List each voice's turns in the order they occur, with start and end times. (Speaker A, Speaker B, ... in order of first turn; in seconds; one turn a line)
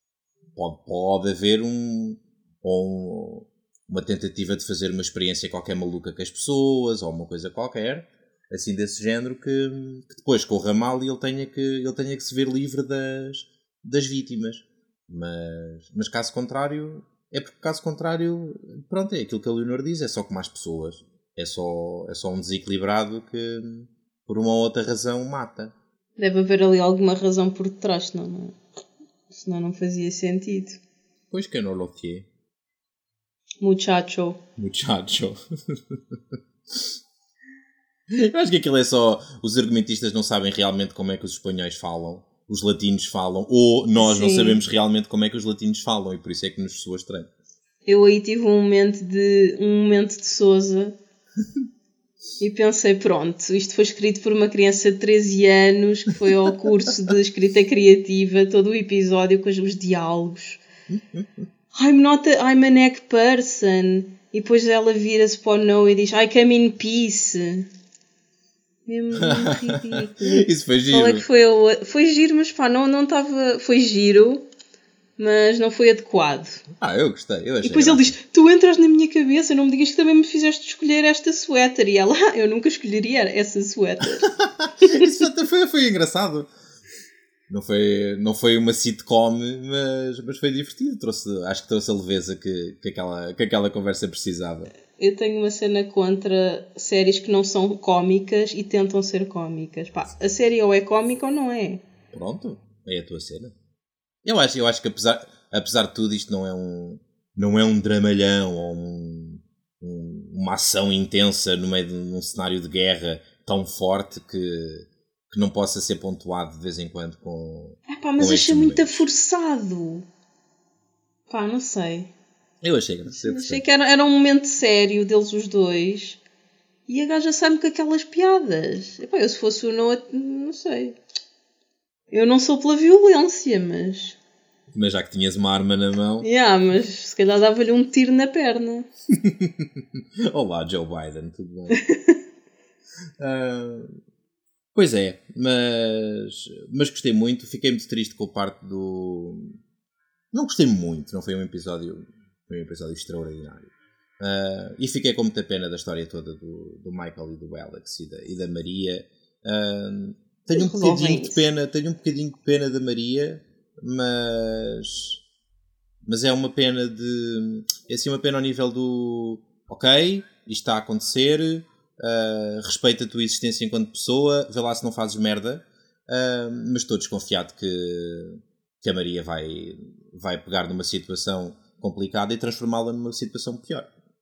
Speaker A: 0.5-25.7
Speaker B: 26.2-28.6
Speaker B: 29.3-30.8
Speaker A: 31.3-32.3
Speaker B: 33.6-34.4
Speaker A: 34.6-36.9
Speaker A: 38.1-47.3
Speaker B: 44.0-44.6
Speaker B: 47.9-51.0
Speaker B: 52.4-60.6
Speaker A: 60.9-61.4
Speaker B: 61.7-67.7
Speaker B: 68.9-74.4
Speaker A: 69.2-71.2
Speaker B: 75.2-76.6
Speaker A: 76.7-78.2
Speaker B: 77.6-84.3
Speaker A: 84.2-86.5
Speaker B: 84.8-85.1
Speaker A: 87.5-94.7
Speaker B: 95.0-101.8
Speaker A: 102.1-103.5
Speaker A: 104.2-119.0
Speaker B: 117.9-120.0
Speaker B: 121.3-122.1
Speaker A: 122.6-123.6
Speaker B: 123.1-126.2
Speaker B: 126.9-130.9
Speaker B: 132.1-134.2
Speaker A: 134.7-136.3
Speaker B: 136.2-138.9
Speaker A: 139.1-141.8
Speaker B: 141.7-142.2
Speaker A: 143.2-144.0
Speaker A: 144.7-149.6
Speaker A: 150.3-165.2
Speaker B: 160.5-161.4
Speaker A: 166.0-183.9